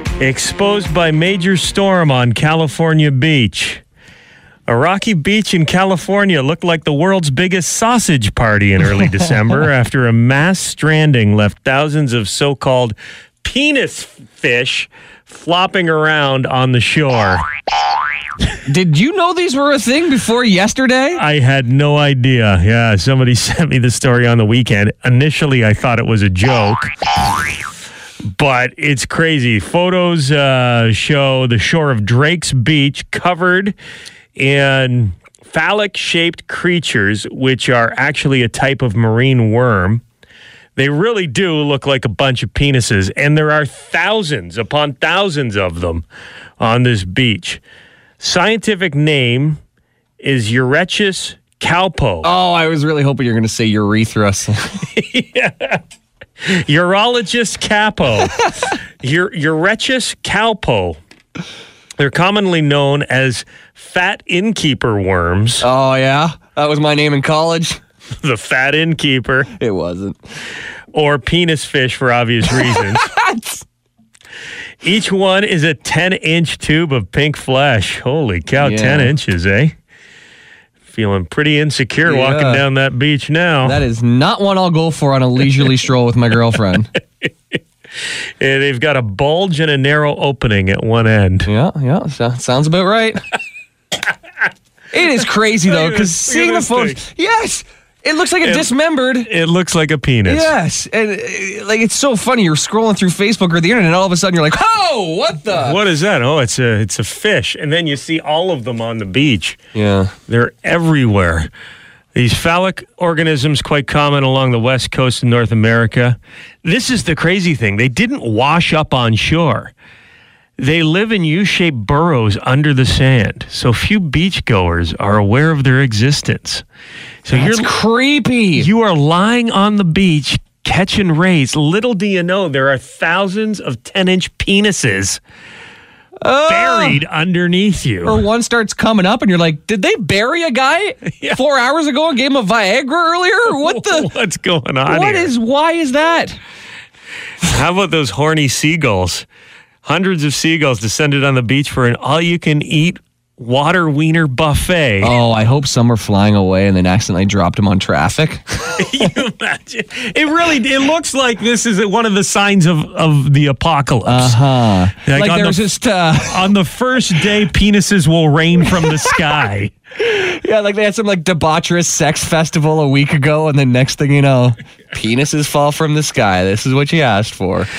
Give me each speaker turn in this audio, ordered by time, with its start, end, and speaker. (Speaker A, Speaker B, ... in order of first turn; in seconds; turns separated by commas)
Speaker A: 0.2-3.8, Speaker A: 4.7-17.4, Speaker B: 18.6-21.2, Speaker A: 21.1-26.9, Speaker A: 28.2-33.8, Speaker A: 34.4-40.0, Speaker A: 40.8-46.0, Speaker A: 46.6-47.6, Speaker A: 48.2-49.6, Speaker A: 50.2-52.3, Speaker B: 52.2-54.7, Speaker A: 54.9-55.8, Speaker A: 56.4-61.0, Speaker B: 58.2-58.7, Speaker A: 62.0-65.7, Speaker B: 65.6-67.8, Speaker A: 68.2-69.5, Speaker B: 69.5-70.2, Speaker A: 70.9-73.0, Speaker B: 72.5-73.6, Speaker A: 74.8-79.7, Speaker B: 78.6-79.1, Speaker A: 80.9-83.8, Speaker B: 82.0-82.6, Speaker B: 83.6-86.9, Speaker A: 88.4-91.5, Speaker B: 91.5-93.2, Speaker B: 94.9-99.3, Speaker A: 95.7-97.0, Speaker A: 98.4-100.5, Speaker B: 100.2-105.8, Speaker A: 105.5-109.6, Speaker B: 109.7-110.1, Speaker A: 110.3-111.5, Speaker A: 112.1-119.7, Speaker A: 120.6-126.6, Speaker A: 127.2-127.7, Speaker B: 127.3-128.7, Speaker A: 128.6-135.2, Speaker B: 136.2-137.0, Speaker A: 136.4-138.2, Speaker B: 138.0-144.1, Speaker A: 143.5-145.3, Speaker B: 144.9-146.4, Speaker A: 147.4-149.2, Speaker A: 149.8-155.1, Speaker B: 155.0-158.6, Speaker A: 158.7-165.6, Speaker B: 164.1-166.4, Speaker A: 166.2-169.7, Speaker B: 170.0-177.7